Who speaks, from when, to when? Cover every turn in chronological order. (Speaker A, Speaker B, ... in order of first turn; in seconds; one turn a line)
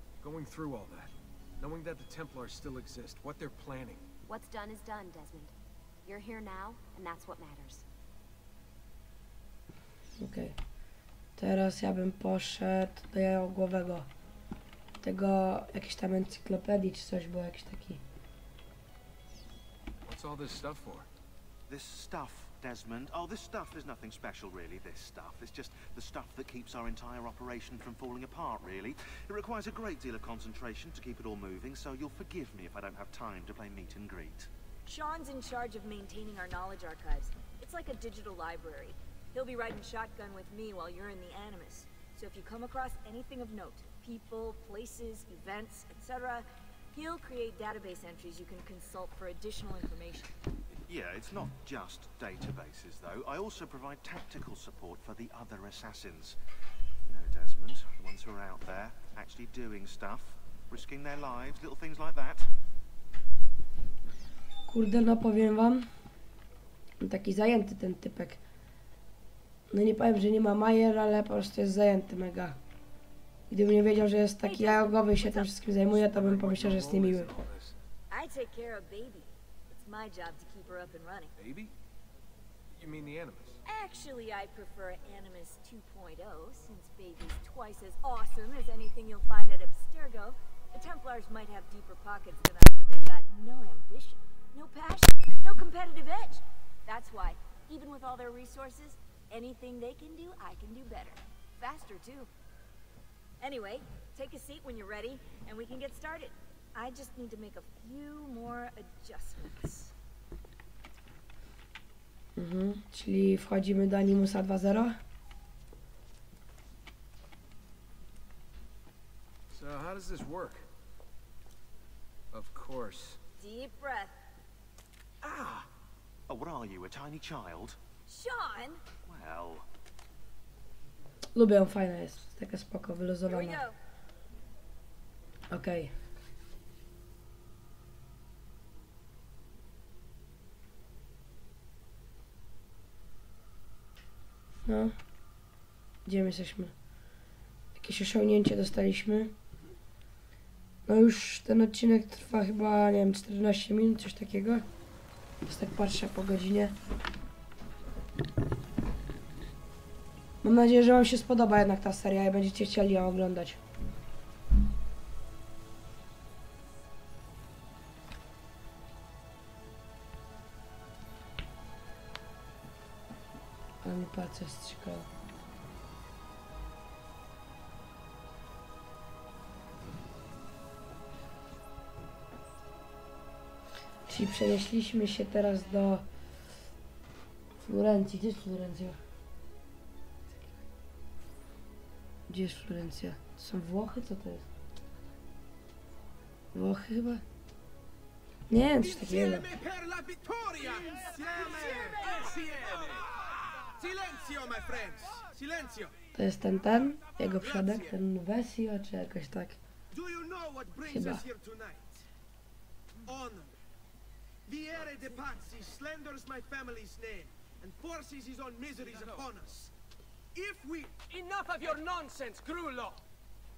Speaker A: 0.2-4.0
Speaker B: 4.3-5.5
Speaker B: 6.1-7.8
Speaker C: 10.2-10.6
Speaker C: 11.4-14.1
Speaker C: 15.0-18.0
Speaker A: 20.1-21.1
Speaker D: 21.7-34.5
Speaker E: 34.9-50.3
Speaker D: 50.9-56.4
Speaker D: 57.1-62.5
Speaker C: 64.7-65.9
Speaker C: 67.0-68.4
Speaker C: 69.7-72.6
Speaker C: 73.5-77.3
Speaker E: 74.4-75.5
Speaker A: 75.9-77.8
Speaker E: 78.1-81.3
Speaker A: 81.4-81.7
Speaker A: 82.7-83.6
Speaker E: 83.7-102.3
Speaker E: 103.4-109.9
Speaker C: 112.4-115.0
Speaker A: 119.5-120.7
Speaker A: 122.3-123.2
Speaker E: 123.4-124.1
Speaker A: 125.2-125.7
Speaker D: 126.3-127.8
Speaker E: 128.1-128.8
Speaker D: 129.1-129.7
Speaker C: 131.3-133.7
Speaker E: 133.3-133.8
Speaker C: 135.5-135.9
Speaker C: 144.7-144.9
Speaker C: 146.1-146.7
Speaker C: 147.8-149.3
Speaker C: 150.9-154.7
Speaker C: 155.4-156.8
Speaker C: 160.4-163.6
Speaker C: 173.8-175.1
Speaker C: 184.1-186.1
Speaker C: 187.6-189.0
Speaker C: 192.3-194.4
Speaker C: 196.5-197.2
Speaker C: 198.5-199.5
Speaker F: 198.8-206.0
Speaker C: 206.2-209.6
Speaker F: 207.3-208.0
Speaker F: 209.9-212.1
Speaker C: 210.9-211.2
Speaker F: 213.0-213.6
Speaker F: 214.5-219.7
Speaker F: 220.3-223.0